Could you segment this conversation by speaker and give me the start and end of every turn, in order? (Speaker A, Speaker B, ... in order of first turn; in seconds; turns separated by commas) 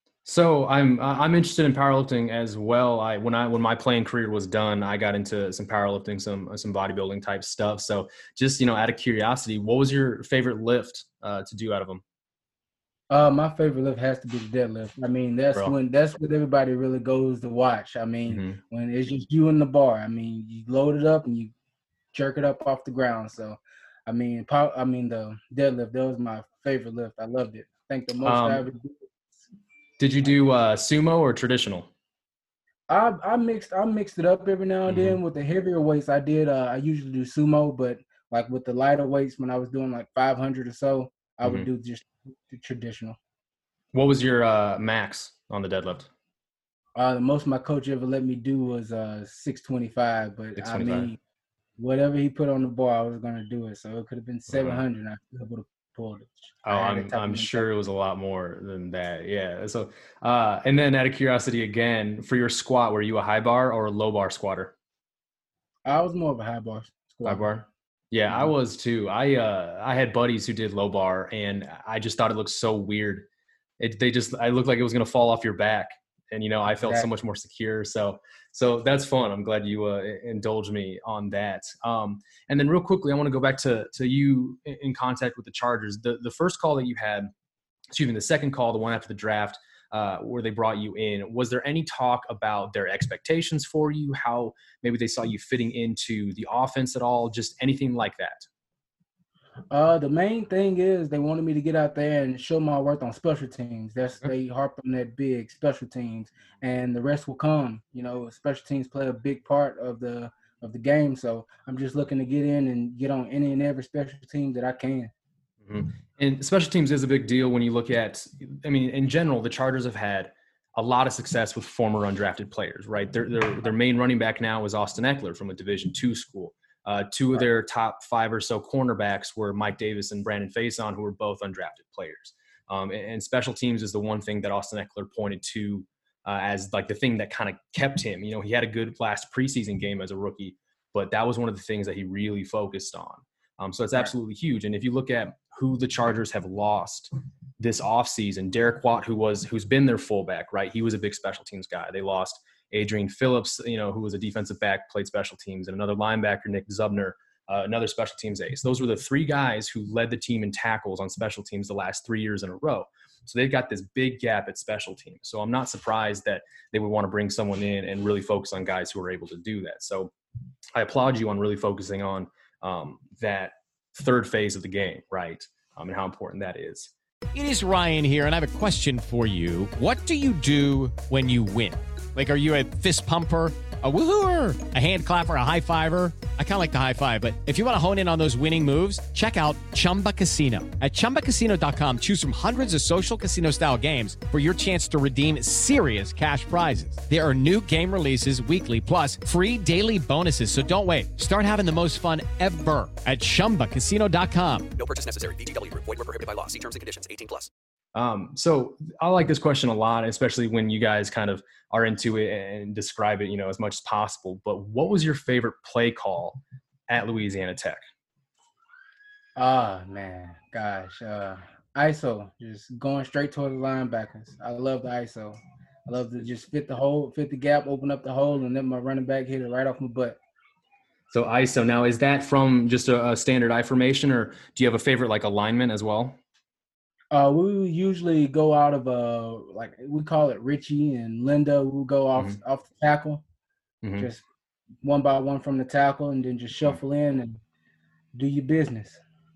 Speaker A: 0.2-12.0, Speaker B: 13.1-21.5, Speaker A: 18.3-18.6, Speaker B: 22.1-29.0, Speaker A: 28.2-28.6, Speaker A: 30.0-31.9, Speaker B: 32.9-43.2, Speaker A: 34.9-35.2, Speaker A: 41.4-41.7, Speaker A: 43.9-46.1, Speaker B: 47.0-51.2, Speaker A: 50.6-51.1, Speaker B: 51.8-57.7, Speaker A: 54.5-54.8, Speaker A: 56.6-64.7, Speaker B: 65.8-67.5, Speaker A: 67.2-73.3, Speaker B: 68.3-68.5, Speaker A: 73.8-87.3, Speaker B: 76.7-77.1, Speaker A: 87.9-98.5, Speaker B: 99.7-115.1, Speaker A: 115.6-170.1, Speaker A: 170.8-176.9, Speaker C: 177.3-204.7, Speaker D: 204.8-207.5, Speaker A: 207.9-217.8, Speaker B: 219.3-230.2, Speaker A: 231.1-236.2, Speaker B: 237.1-243.2, Speaker A: 243.8-244.1, Speaker B: 244.0-244.2, Speaker B: 244.8-247.4, Speaker B: 248.1-249.0